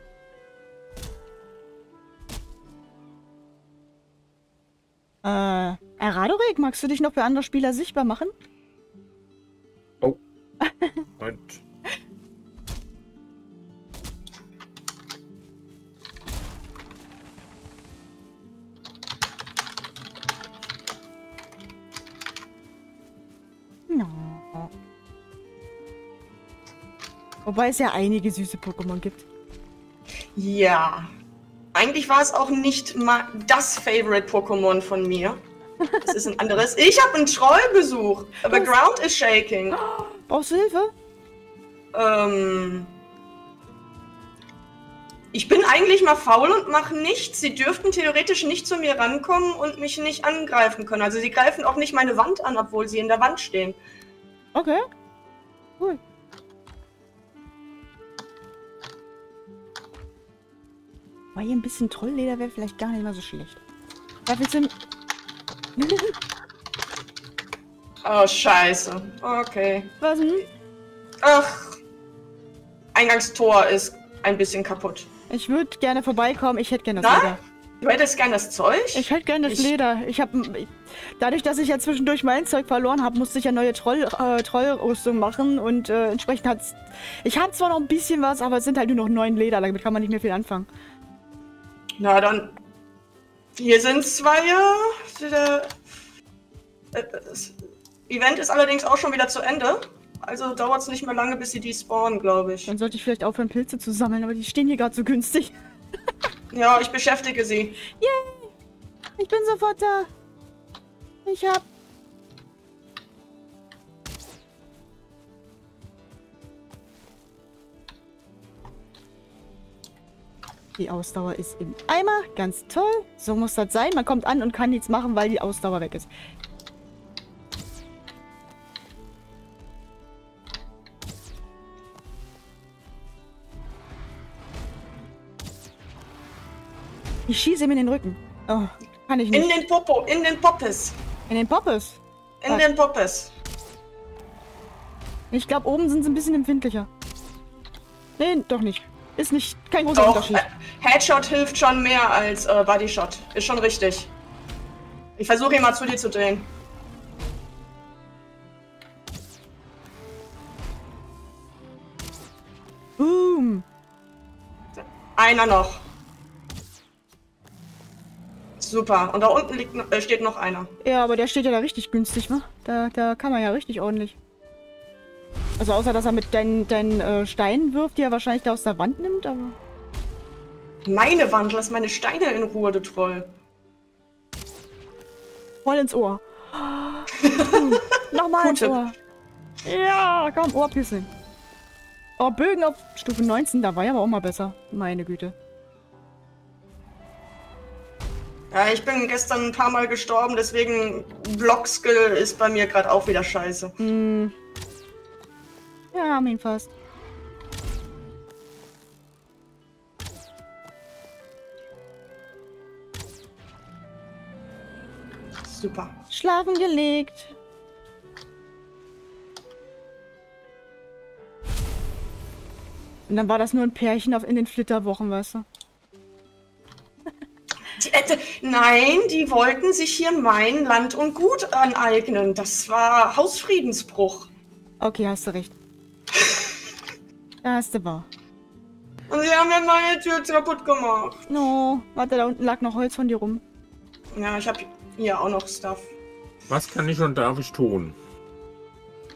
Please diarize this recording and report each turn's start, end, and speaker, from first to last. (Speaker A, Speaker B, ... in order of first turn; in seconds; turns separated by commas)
Speaker A: 5.2-8.3, Speaker A: 10.6-11.0, Speaker B: 11.2-11.6, Speaker A: 23.9-24.7, Speaker A: 27.4-29.2, Speaker C: 30.4-31.1, Speaker C: 31.7-35.4, Speaker A: 35.8-36.1, Speaker C: 36.0-39.8, Speaker A: 38.5-38.7, Speaker A: 39.7-40.9, Speaker C: 41.9-42.9, Speaker C: 45.3-53.8, Speaker A: 54.5-54.8, Speaker A: 61.3-63.6, Speaker A: 64.3-64.7, Speaker A: 65.8-66.1, Speaker C: 68.0-69.9, Speaker A: 70.0-70.5, Speaker C: 71.2-71.8, Speaker C: 72.9-75.1, Speaker A: 75.3-77.4, Speaker C: 77.0-79.7, Speaker A: 78.9-90.7, Speaker C: 92.0-92.5, Speaker C: 93.5-96.0, Speaker C: 96.9-97.5, Speaker C: 98.1-102.7, Speaker A: 102.7-105.5, Speaker C: 106.5-107.8, Speaker A: 107.9-108.5, Speaker A: 109.2-110.1, Speaker A: 111.2-111.6, Speaker A: 120.8-126.1, Speaker A: 137.3-139.5, Speaker C: 139.3-141.0, Speaker A: 141.3-142.6, Speaker C: 142.4-143.3, Speaker A: 145.3-146.9, Speaker A: 148.2-150.4, Speaker C: 149.9-154.1, Speaker C: 155.2-156.5, Speaker A: 163.0-163.6, Speaker C: 164.8-165.8, Speaker C: 168.6-170.7, Speaker A: 170.8-174.2, Speaker A: 175.6-179.6, Speaker C: 180.8-183.3, Speaker A: 185.6-188.9, Speaker C: 187.2-187.7, Speaker C: 188.4-188.7, Speaker A: 189.6-191.1, Speaker A: 192.2-195.3, Speaker C: 198.5-203.8, Speaker A: 203.8-204.3, Speaker A: 205.9-206.7, Speaker C: 215.4-216.0, Speaker A: 216.1-217.3, Speaker A: 223.1-225.4, Speaker C: 227.8-234.3, Speaker A: 234.8-235.5, Speaker C: 236.2-236.5, Speaker A: 237.4-238.1, Speaker C: 239.1-241.3, Speaker A: 241.3-243.4, Speaker C: 244.1-245.9, Speaker B: 246.5-247.9